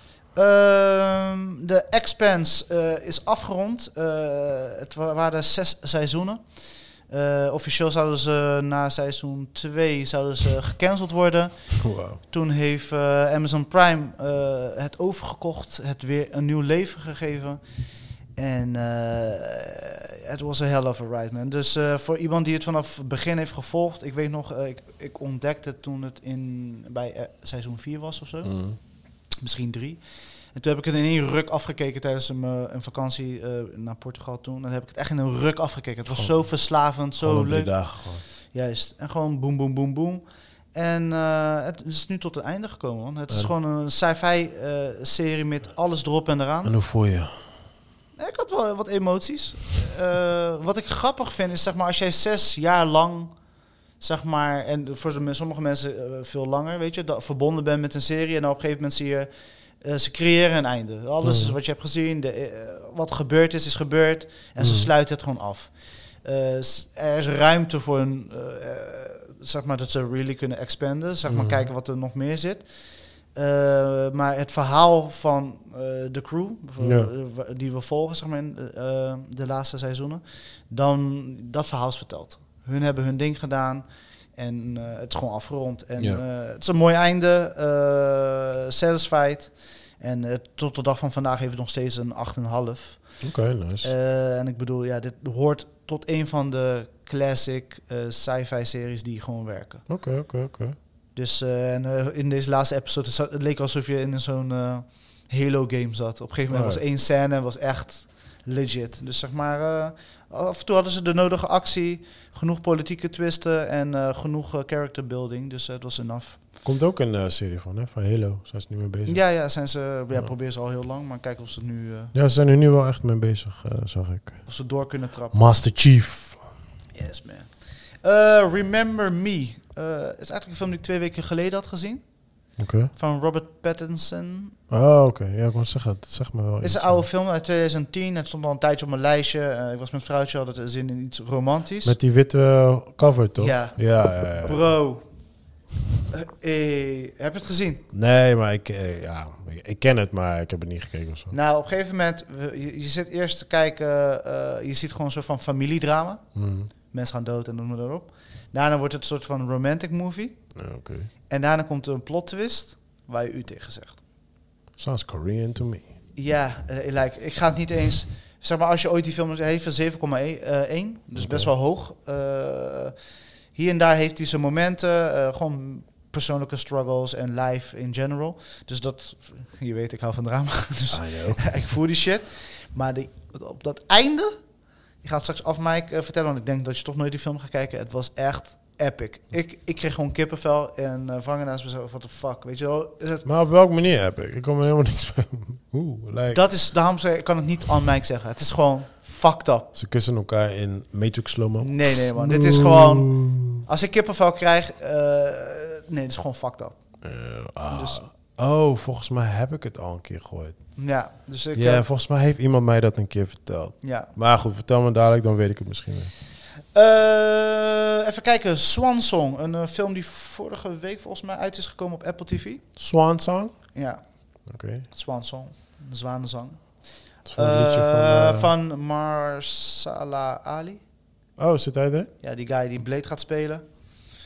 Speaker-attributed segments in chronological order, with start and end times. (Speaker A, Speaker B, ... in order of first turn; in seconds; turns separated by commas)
Speaker A: 0.3-17.6, Speaker B: 11.8-12.2, Speaker A: 18.3-28.7, Speaker B: 28.4-28.8, Speaker A: 29.4-46.7, Speaker B: 36.1-36.5, Speaker B: 37.2-38.2, Speaker B: 46.6-47.5, Speaker A: 48.2-53.3, Speaker A: 54.0-59.3, Speaker A: 59.8-72.7, Speaker B: 61.2-61.5, Speaker B: 64.6-64.9, Speaker B: 71.3-71.7, Speaker A: 73.3-93.2, Speaker B: 76.8-77.1, Speaker B: 93.2-93.9, Speaker A: 93.8-99.9, Speaker B: 99.9-100.8, Speaker A: 101.1-116.4, Speaker B: 106.5-106.8, Speaker B: 116.6-119.2, Speaker A: 119.1-122.1, Speaker B: 122.1-124.5, Speaker A: 124.5-125.4, Speaker B: 125.3-126.4, Speaker A: 126.9-132.1, Speaker B: 132.6-132.9, Speaker A: 132.9-134.6, Speaker B: 134.7-137.0, Speaker A: 136.6-141.9, Speaker B: 141.8-144.6, Speaker A: 143.4-145.0, Speaker A: 146.1-147.8, Speaker B: 147.9-151.3, Speaker A: 151.3-160.5, Speaker B: 156.3-156.7, Speaker B: 160.6-161.1, Speaker A: 161.3-164.0, Speaker B: 164.8-165.9, Speaker A: 166.2-172.9, Speaker B: 171.1-171.5, Speaker A: 173.5-184.4, Speaker B: 180.9-181.4, Speaker A: 185.0-193.2, Speaker B: 193.2-196.4, Speaker A: 196.3-199.7, Speaker B: 199.7-203.6, Speaker A: 201.6-207.0, Speaker B: 207.0-210.8, Speaker A: 207.7-208.0, Speaker A: 210.8-211.8, Speaker B: 211.5-216.1, Speaker A: 213.8-214.1, Speaker A: 216.7-222.7, Speaker B: 222.8-223.6, Speaker A: 223.7-230.8, Speaker B: 224.4-224.9, Speaker B: 227.2-228.5, Speaker B: 231.4-232.1, Speaker A: 232.2-233.7